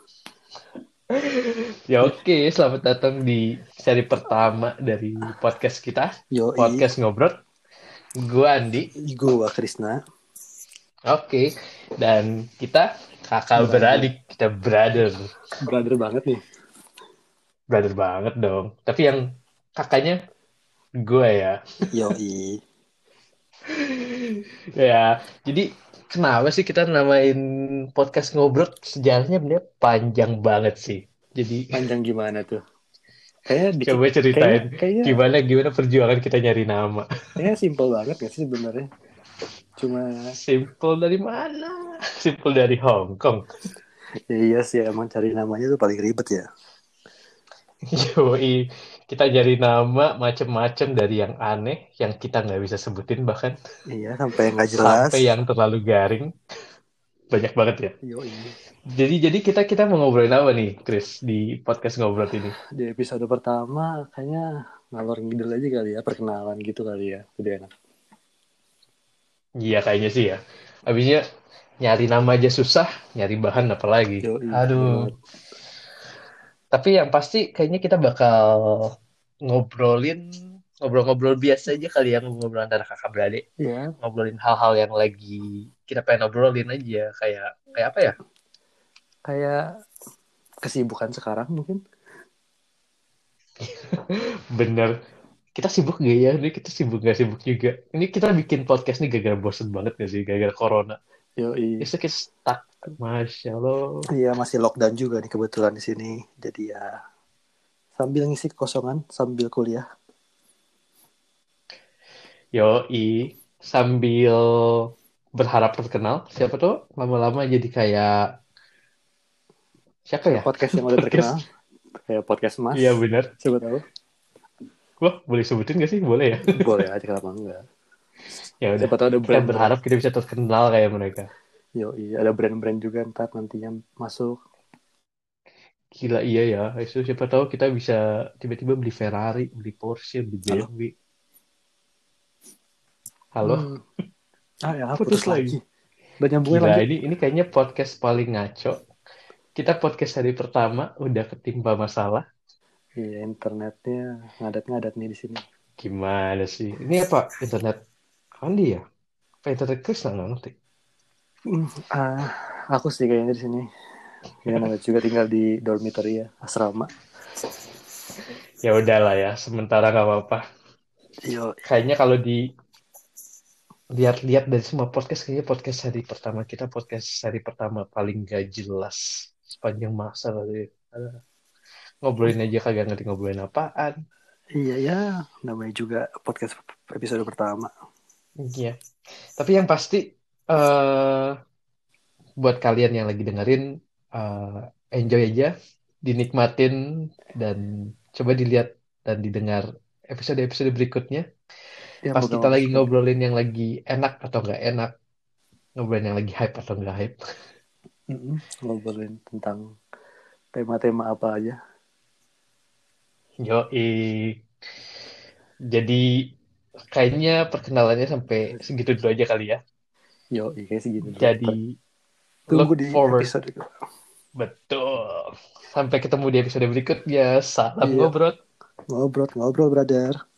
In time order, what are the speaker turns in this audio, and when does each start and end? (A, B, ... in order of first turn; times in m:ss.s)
0:01.1-0:07.3 A
0:06.3-0:06.8 B
0:08.2-0:08.9 A
0:09.0-0:10.0 B
0:11.1-0:15.3 A
0:13.6-0:14.1 B
0:15.6-0:16.4 B
0:17.7-0:19.2 A
0:19.8-0:20.2 A
0:21.0-0:21.6 A
0:21.9-0:22.6 B
0:23.7-0:27.4 A
0:27.9-0:31.7 A
0:31.7-0:32.6 B
0:33.5-0:35.2 B
0:33.8-0:37.0 A
0:37.4-0:38.9 B
0:39.8-0:40.2 B
0:40.4-0:43.4 A
0:44.3-0:46.5 B
0:47.9-0:53.6 A
0:53.9-0:55.2 B
0:54.7-0:56.3 A
0:57.3-0:57.9 A
0:58.0-0:58.5 B
0:58.9-1:02.5 A
1:02.8-1:07.7 B
1:09.6-1:11.2 A
1:11.8-1:15.1 A
1:14.2-1:15.1 B
1:16.7-1:18.9 A
1:19.4-1:20.2 A
1:20.8-1:23.4 A
1:23.6-1:23.9 B
1:24.0-1:28.1 A
1:29.3-1:29.6 B
1:30.6-1:31.8 B
1:33.6-1:34.9 A
1:35.6-1:41.0 A
1:41.4-1:41.9 B
1:41.8-1:44.0 A
1:44.1-1:46.9 B
1:48.0-1:49.8 B
1:52.5-1:54.8 A
1:55.4-1:58.1 A
2:00.1-2:01.3 A
2:00.3-2:01.4 B
2:02.1-2:03.8 B
2:02.7-2:03.3 A
2:05.0-2:06.6 A
2:06.5-2:07.6 B
2:08.6-2:11.3 A
2:08.8-2:09.7 B
2:11.8-2:14.4 B
2:16.0-2:20.9 A
2:23.4-2:23.7 A
2:23.4-2:23.8 B
2:24.7-2:25.6 B
2:25.0-2:25.6 A
2:26.2-2:26.8 B
2:26.5-2:28.8 A
2:29.6-2:32.2 A
2:33.0-2:35.4 B
2:35.8-2:37.8 A
2:38.4-2:38.8 A
2:39.4-2:40.5 A
2:41.5-2:43.7 B
2:44.4-2:46.9 B
2:48.6-2:50.4 A
2:51.2-2:51.5 B
2:51.6-2:52.4 A
2:54.0-3:01.2 A
3:02.0-3:04.0 A
3:04.6-3:07.7 B
3:08.4-3:08.7 A
3:09.4-3:11.3 A
3:12.4-3:13.6 A
3:14.2-3:15.5 A
3:16.1-3:16.8 A
3:17.3-3:17.6 A
3:18.2-3:21.2 A
3:22.1-3:22.9 B
3:22.1-3:24.9 A
3:25.8-3:27.2 A
3:28.1-3:29.6 B
3:30.5-3:31.6 B
3:33.4-3:34.3 A
3:35.7-3:36.0 A
3:36.9-3:39.6 A
3:40.3-3:41.6 B
3:41.2-3:41.7 A
3:42.5-3:43.7 B
3:42.5-3:43.3 A
3:44.4-3:48.4 A
3:47.8-3:48.1 B
3:48.9-3:50.2 B